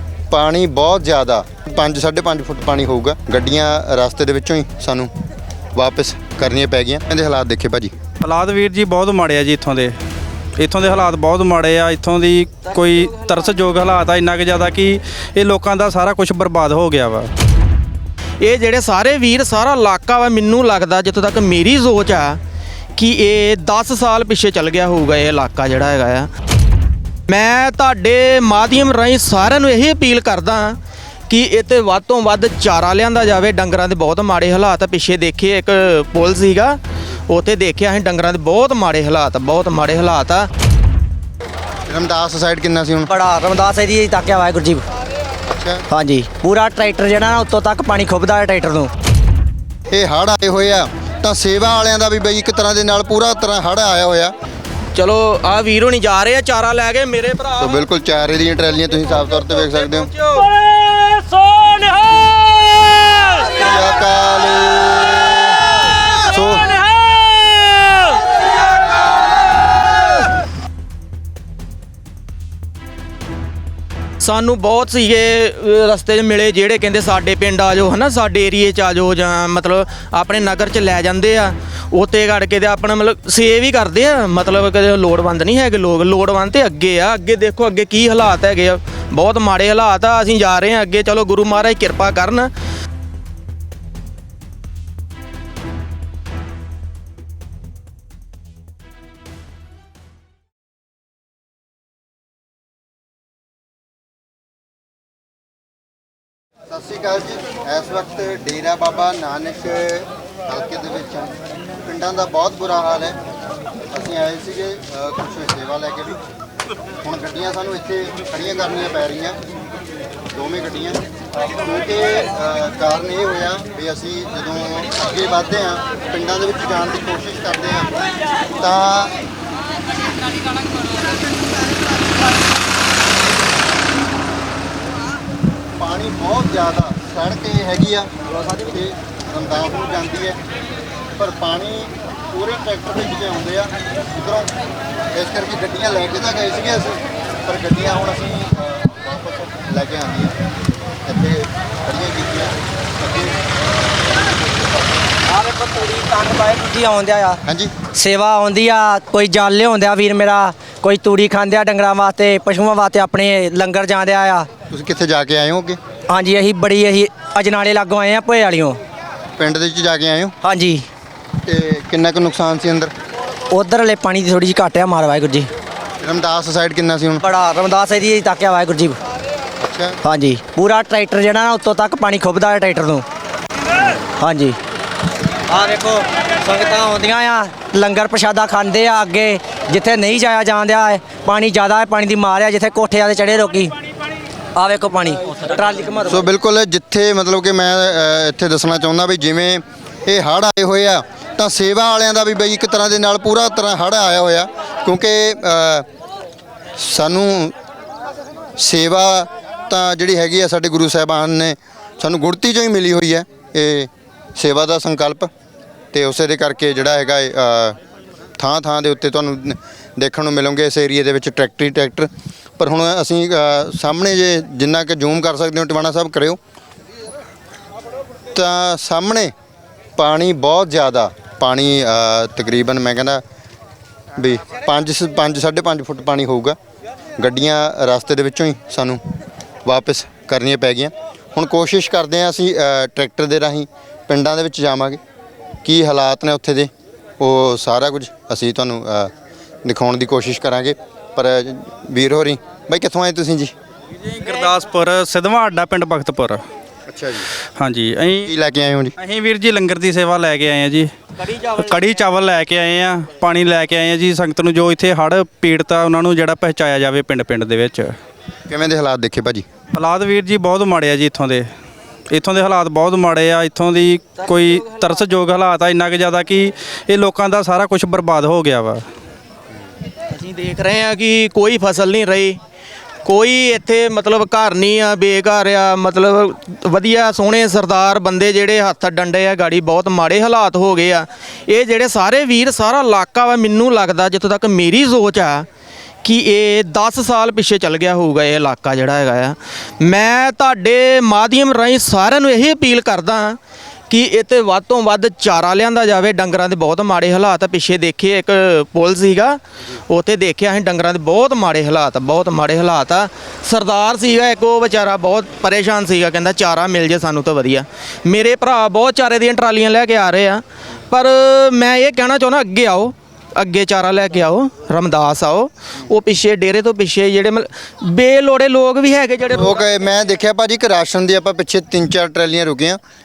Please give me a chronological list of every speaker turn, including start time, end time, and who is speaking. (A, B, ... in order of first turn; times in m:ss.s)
0:00.3-0:05.1 A
0:05.7-0:07.9 A
0:08.2-0:09.9 B
0:10.6-0:17.3 B
0:18.4-0:22.4 C
0:23.0-0:26.3 C
0:27.3-0:36.8 C
0:37.3-0:40.5 C
0:41.8-0:43.1 A
0:43.1-0:44.8 D
0:45.5-0:45.8 A
0:45.9-0:48.9 D
0:49.9-0:54.3 A
0:54.9-0:57.8 C
0:57.6-1:00.1 A
0:59.6-1:02.3 C
1:03.5-1:06.8 A
1:14.2-1:32.5 C
1:46.7-1:53.2 A
1:53.9-1:56.2 A
1:57.0-1:59.4 A
2:00.3-2:07.9 A
2:08.6-2:09.1 A
2:15.8-2:18.1 A
2:18.6-2:20.4 A
2:21.2-2:24.5 A
2:25.1-2:30.4 A
2:31.0-2:33.4 A
2:35.3-2:44.5 D
2:37.4-2:37.7 A
2:44.7-2:45.8 A
2:46.1-2:48.8 D
2:49.4-2:50.3 A
2:50.4-2:50.8 D
2:51.4-2:52.9 A
2:53.5-2:55.5 D
2:56.0-2:57.2 A
2:57.2-2:59.0 D
2:59.6-3:00.0 A
3:00.0-3:03.0 D
3:04.2-3:04.6 D
3:05.5-3:13.7 D
3:14.6-3:16.2 D
3:16.1-3:25.8 A
3:26.8-3:27.5 A
3:28.6-3:35.3 A
3:35.9-3:37.8 A
3:38.4-3:46.4 A
3:48.3-3:49.3 A
3:50.0-3:53.2 A
3:54.2-3:56.6 A
3:57.2-3:59.0 A
3:59.6-4:05.0 A
4:05.6-4:09.1 A
4:09.6-4:13.5 A
4:14.0-4:16.4 B
4:16.9-4:17.3 A
4:17.6-4:18.3 B
4:18.2-4:18.9 A
4:19.0-4:27.9 B
4:28.5-4:29.4 A
4:29.7-4:31.5 B
4:32.1-4:38.8 B
4:40.1-4:42.4 C
4:43.0-4:55.4 C
4:56.0-5:03.4 C
5:03.9-5:29.6 C
5:29.3-5:32.8 A